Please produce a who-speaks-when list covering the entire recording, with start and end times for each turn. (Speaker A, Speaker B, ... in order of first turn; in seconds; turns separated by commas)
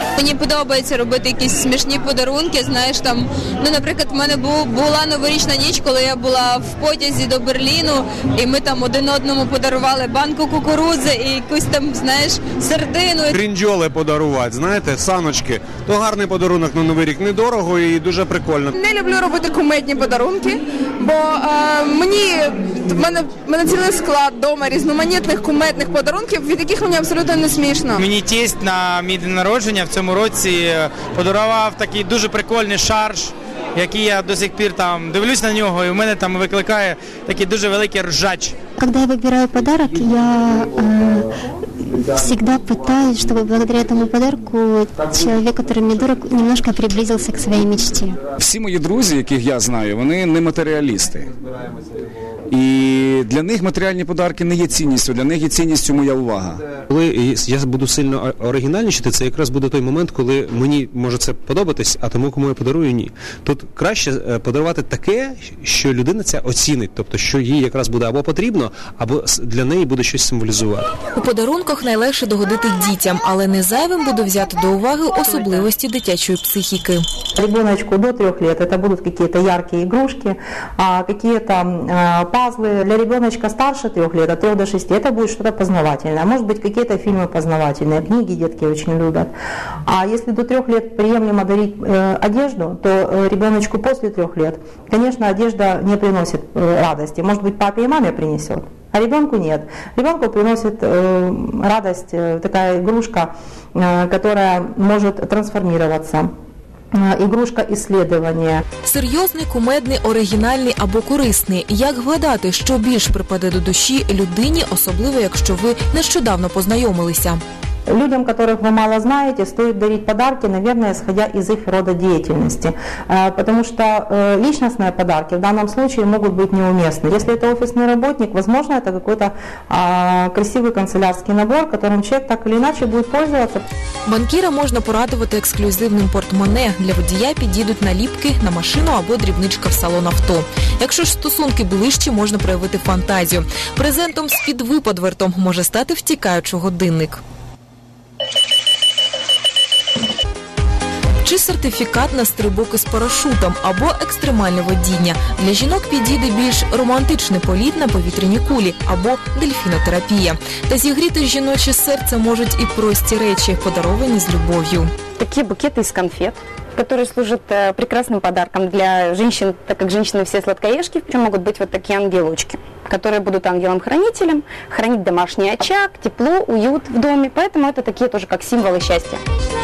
Speaker A: 0.2-13.4, Speaker B: 13.3-18.7, Speaker C: 18.7-28.0, Speaker D: 28.0-38.5, Speaker E: 38.8-41.2, Speaker E: 41.9-48.2, Speaker F: 48.4-51.3, Speaker F: 52.5-56.6, Speaker G: 56.9-70.9, Speaker H: 71.2-77.0, Speaker I: 77.4-89.3, Speaker I: 89.9-106.3, Speaker I: 107.0-108.6, Speaker H: 108.8-117.4, Speaker I: 117.9-133.6, Speaker H: 134.1-147.2, Speaker H: 151.2-164.9, Speaker J: 165.2-179.2